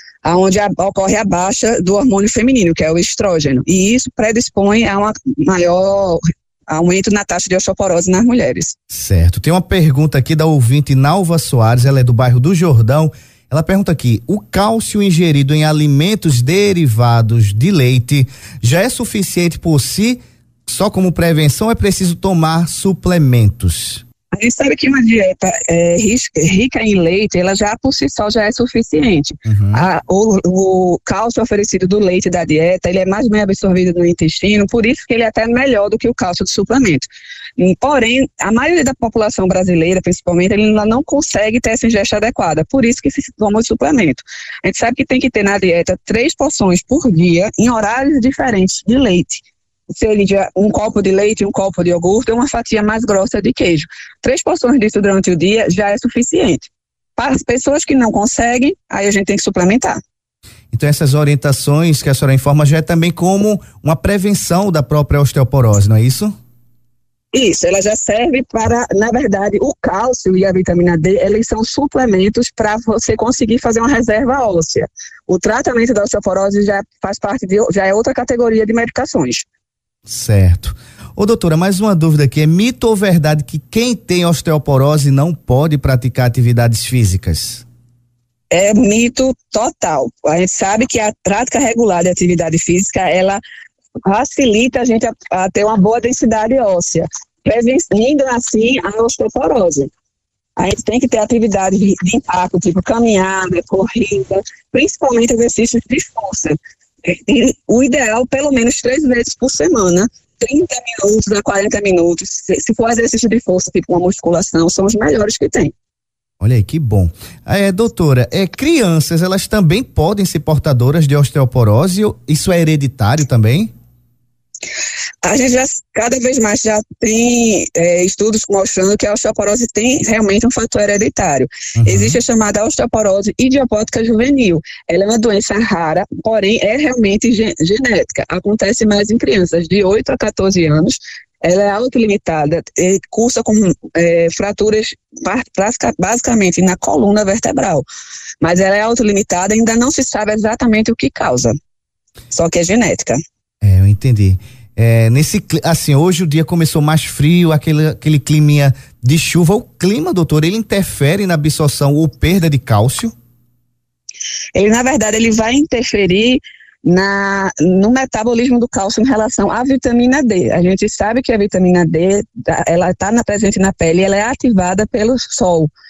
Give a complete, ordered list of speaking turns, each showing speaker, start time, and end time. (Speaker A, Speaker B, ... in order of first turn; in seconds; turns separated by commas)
Speaker A: 0.2-8.8, Speaker B: 8.9-24.0, Speaker A: 24.3-60.0, Speaker B: 29.4-29.8, Speaker B: 60.7-66.3, Speaker A: 67.3-79.5, Speaker B: 80.1-87.6, Speaker A: 88.5-93.4, Speaker A: 94.0-99.9, Speaker A: 100.6-115.7, Speaker B: 116.4-123.7, Speaker A: 125.2-147.8, Speaker B: 131.8-132.2, Speaker A: 148.4-151.6, Speaker A: 152.3-153.2, Speaker B: 153.6-163.1, Speaker A: 164.5-175.7